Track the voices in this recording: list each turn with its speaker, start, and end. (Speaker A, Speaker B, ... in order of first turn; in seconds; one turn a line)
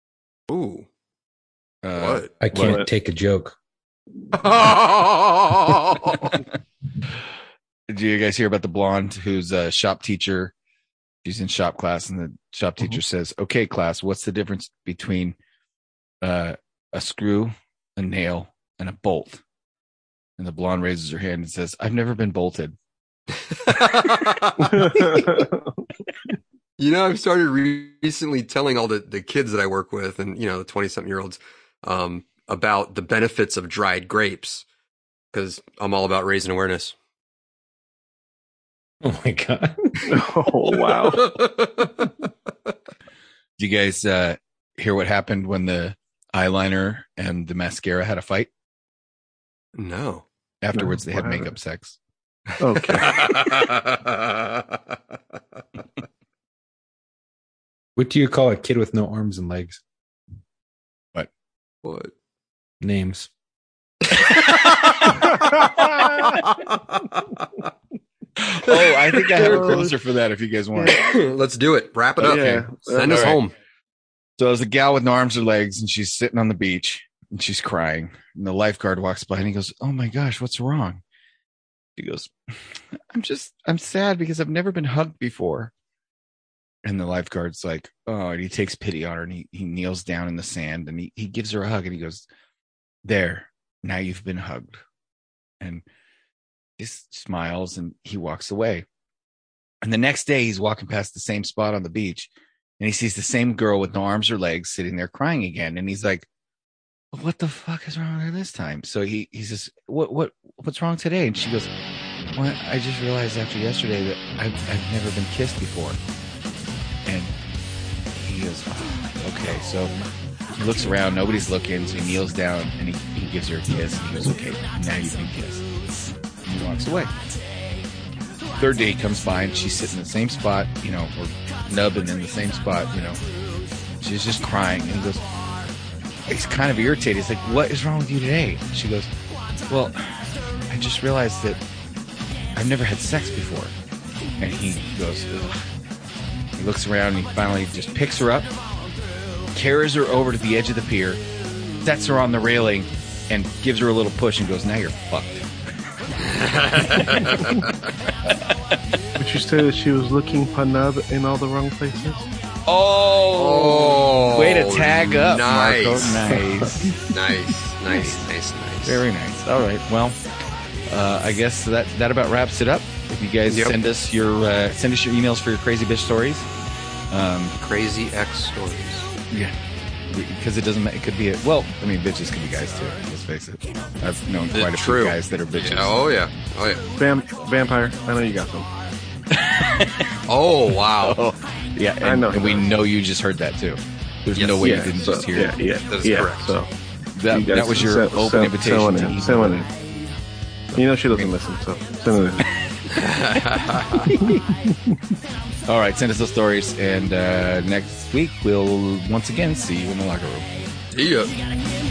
Speaker A: 0.5-0.9
Speaker B: 1.8-2.8
Speaker A: 1.9-2.3
Speaker C: 2.4-3.6
Speaker D: 2.6-2.9
Speaker A: 4.3-6.4
Speaker B: 7.9-10.5
Speaker B: 11.2-15.4
Speaker B: 16.2-19.4
Speaker B: 20.4-22.8
Speaker A: 23.4-25.2
Speaker D: 24.6-25.7
Speaker A: 26.8-34.6
Speaker A: 35.3-37.0
Speaker C: 39.0-40.0
Speaker D: 40.0-41.4
Speaker A: 40.8-42.1
Speaker B: 43.6-48.5
Speaker A: 49.8-50.2
Speaker B: 50.6-52.0
Speaker D: 50.7-51.5
Speaker D: 52.6-53.4
Speaker A: 52.8-55.0
Speaker C: 58.0-59.8
Speaker A: 61.8-62.1
Speaker C: 62.8-63.3
Speaker A: 64.0-67.7
Speaker B: 68.4-71.0
Speaker A: 68.7-69.9
Speaker D: 69.4-69.9
Speaker A: 70.8-73.5
Speaker D: 72.2-73.3
Speaker B: 72.3-73.4
Speaker B: 74.4-81.0
Speaker B: 82.0-85.7
Speaker B: 86.8-92.3
Speaker B: 93.0-94.8
Speaker B: 96.8-98.8
Speaker B: 99.8-106.3
Speaker B: 107.1-111.7
Speaker B: 112.3-116.0
Speaker B: 117.1-117.3
Speaker B: 118.2-120.0
Speaker B: 120.6-125.6
Speaker B: 126.4-127.1
Speaker B: 128.6-133.2
Speaker B: 134.0-135.3
Speaker B: 136.3-139.1
Speaker B: 139.7-141.6
Speaker B: 142.5-143.7
Speaker B: 144.4-145.6
Speaker B: 146.6-148.5
Speaker B: 149.5-151.2
Speaker B: 151.8-155.4
Speaker A: 156.2-157.9
Speaker B: 158.3-158.5
Speaker D: 159.2-162.3
Speaker B: 162.7-167.0
Speaker A: 163.3-166.2
Speaker C: 166.2-167.2
Speaker A: 167.1-169.0
Speaker B: 167.9-168.2
Speaker B: 168.8-170.2
Speaker B: 170.9-176.5
Speaker A: 173.5-173.8
Speaker B: 177.1-177.6
Speaker A: 177.6-179.1
Speaker B: 180.1-186.0
Speaker A: 184.5-186.9
Speaker D: 187.0-188.7
Speaker B: 189.3-190.1
Speaker A: 190.3-191.2
Speaker B: 191.0-195.6
Speaker D: 192.0-192.7
Speaker A: 194.3-194.9
Speaker D: 194.6-196.7
Speaker A: 195.8-196.6
Speaker B: 197.2-199.7
Speaker D: 197.3-199.7
Speaker D: 200.8-202.4
Speaker A: 202.9-204.1
Speaker D: 204.2-205.0
Speaker B: 205.7-210.5
Speaker A: 210.9-211.3